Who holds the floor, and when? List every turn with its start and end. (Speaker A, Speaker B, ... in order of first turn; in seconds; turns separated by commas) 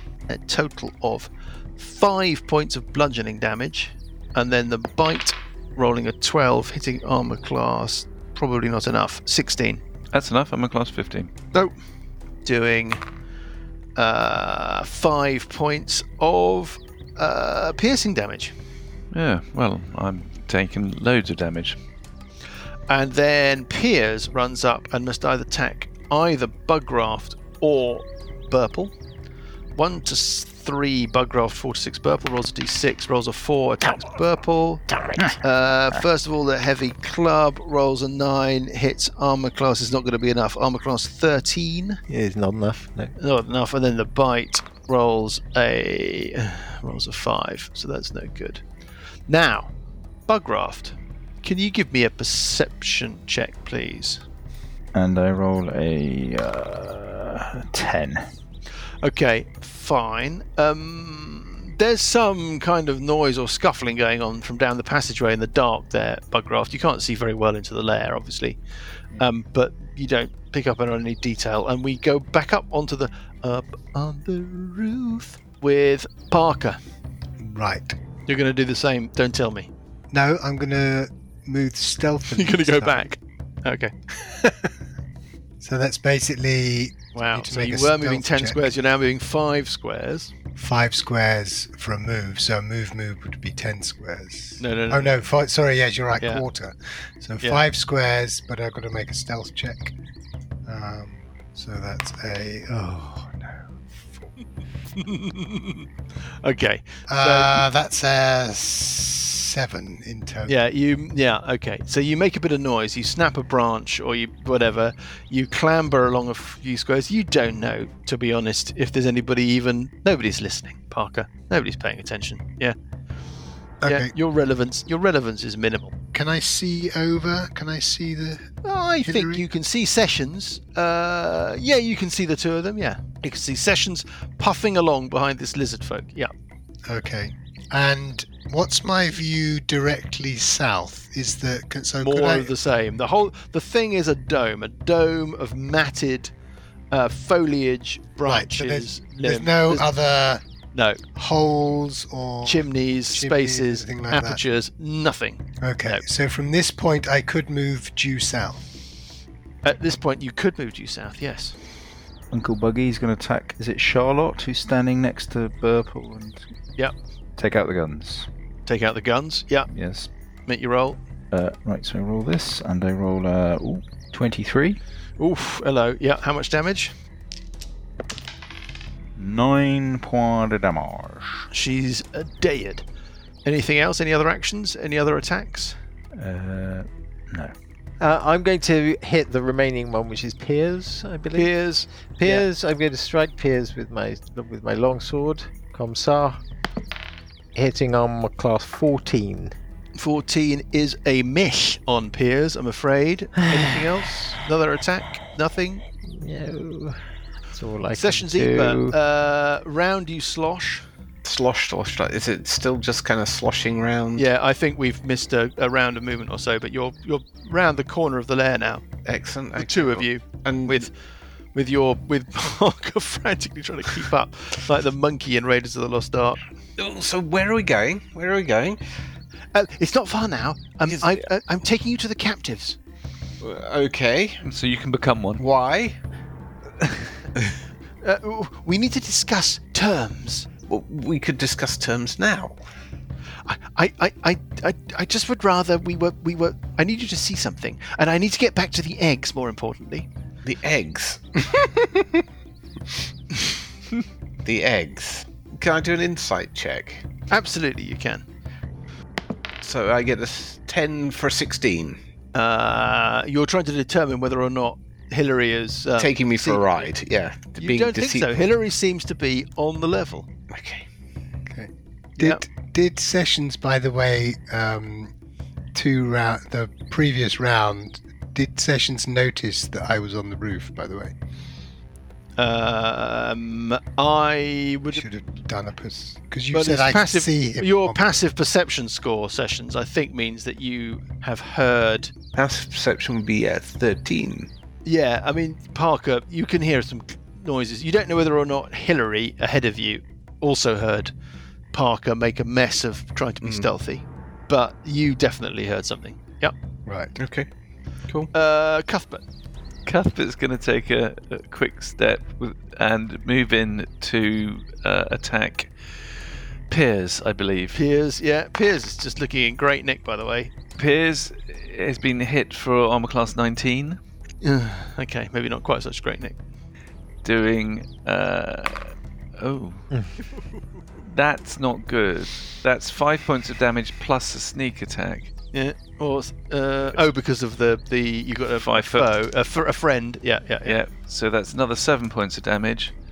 Speaker A: 0.3-9.8, Speaker B: 10.1-11.3, Speaker A: 12.4-13.0, Speaker A: 13.9-18.5, Speaker B: 19.1-21.8, Speaker A: 22.9-28.9, Speaker A: 29.7-42.0, Speaker C: 42.1-43.1, Speaker A: 43.2-48.6, Speaker A: 49.3-49.7, Speaker A: 50.3-54.2, Speaker D: 54.9-58.3, Speaker A: 59.0-68.6, Speaker A: 69.2-76.8, Speaker E: 77.4-78.0, Speaker A: 78.3-79.7, Speaker E: 80.1-83.0, Speaker A: 82.3-83.9, Speaker E: 85.6-88.6, Speaker A: 87.1-90.3, Speaker E: 90.6-100.0, Speaker A: 94.6-95.1, Speaker E: 100.7-104.3, Speaker A: 105.0-105.9, Speaker A: 106.4-107.6, Speaker E: 107.1-110.5, Speaker A: 110.5-122.8, Speaker E: 123.8-124.1, Speaker A: 123.8-125.9, Speaker E: 126.1-129.4, Speaker A: 128.6-136.3, Speaker E: 136.9-142.6, Speaker A: 142.0-146.3, Speaker A: 146.9-149.9, Speaker E: 148.2-150.4, Speaker A: 150.7-151.0, Speaker E: 151.1-154.4, Speaker A: 152.4-156.0, Speaker E: 155.6-158.6, Speaker A: 159.6-161.6, Speaker D: 162.3-166.4, Speaker D: 167.4-168.3, Speaker A: 168.7-169.7, Speaker D: 169.7-170.1, Speaker A: 170.5-171.0, Speaker D: 171.3-174.8, Speaker A: 175.2-176.9, Speaker D: 179.2-181.5, Speaker A: 181.5-182.8, Speaker A: 183.4-185.8, Speaker D: 186.1-187.5, Speaker C: 188.0-191.5, Speaker A: 191.3-192.5, Speaker C: 192.2-196.4, Speaker C: 197.5-199.5, Speaker A: 200.0-205.8, Speaker C: 203.4-204.0, Speaker C: 206.0-207.0, Speaker C: 207.5-208.9, Speaker A: 207.9-210.8, Speaker F: 211.2-214.2, Speaker A: 214.2-218.8, Speaker F: 219.0-220.9, Speaker A: 219.6-220.9, Speaker A: 221.5-226.4, Speaker F: 226.8-228.8, Speaker A: 229.5-232.8, Speaker F: 230.9-231.2, Speaker F: 233.4-234.4, Speaker B: 234.4-235.4, Speaker F: 235.4-236.0, Speaker A: 238.0-240.5, Speaker F: 240.7-242.6, Speaker A: 243.5-250.1, Speaker F: 250.4-252.0, Speaker F: 254.4-257.0, Speaker A: 257.3-258.2, Speaker F: 259.6-262.0, Speaker A: 262.3-266.9, Speaker F: 266.0-268.4, Speaker A: 267.6-270.3, Speaker F: 270.5-270.8, Speaker E: 271.5-275.1, Speaker A: 272.2-272.4, Speaker E: 275.7-281.1, Speaker A: 282.4-285.0, Speaker E: 284.9-288.0, Speaker A: 286.5-292.1, Speaker F: 292.3-294.5, Speaker A: 294.8-301.1, Speaker A: 301.7-306.5, Speaker F: 303.4-303.7, Speaker E: 306.9-307.1, Speaker F: 307.2-307.5, Speaker A: 308.3-309.2, Speaker B: 309.9-315.7, Speaker B: 316.7-317.8, Speaker A: 317.7-320.5, Speaker B: 320.8-324.0, Speaker A: 324.4-326.4, Speaker B: 327.2-329.9, Speaker B: 331.0-335.3, Speaker A: 335.5-340.8, Speaker B: 338.6-339.1, Speaker B: 340.6-342.9